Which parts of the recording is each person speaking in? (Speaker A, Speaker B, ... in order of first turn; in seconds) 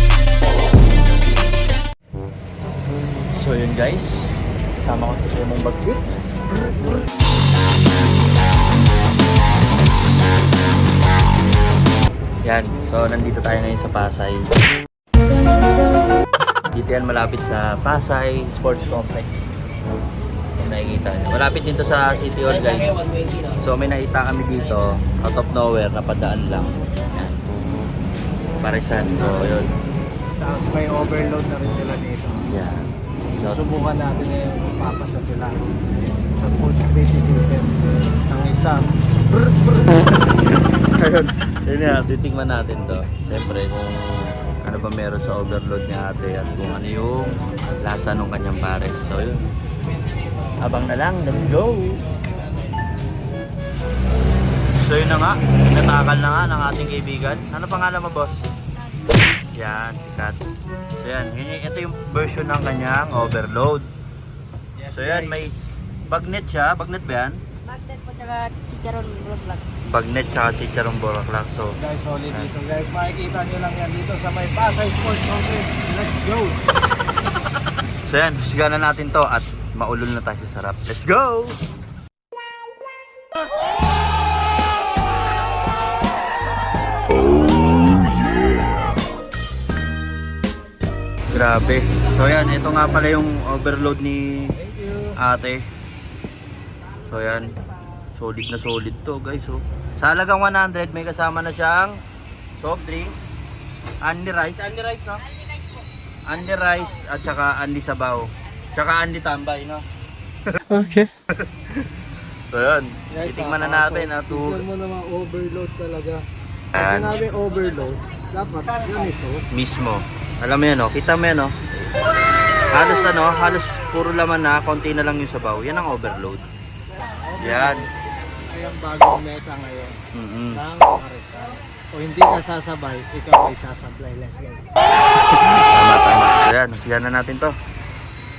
Speaker A: 3.3-6.1, 12.4-14.5, 16.7-19.5, 20.6-27.4, 28.6-29.7, 32.5-33.7, 39.5-49.4, 50.6-52.0, 54.8-58.5, 59.5-60.4, 61.0-63.9, 64.9-65.5, 66.1-67.4, 69.9-71.7, 78.0-81.6, 91.3-94.5, 95.2-95.6, 97.1-97.5, 98.2-102.0, 102.6-103.2, 104.0-105.2, 106.3-109.8, 111.3-111.7, 112.5-114.6, 116.7-117.2, 119.5-121.5, 122.7-126.4, 127.4-127.9, 130.1-130.6, 135.3-137.5
Speaker B: 30.4-32.5, 33.4-38.9, 64.8-65.5, 71.8-76.6, 94.5-95.2, 110.6-111.1, 113.1-116.2, 116.7-119.4, 127.0-127.9, 128.5-130.0, 130.5-134.7
Speaker C: 67.7-69.6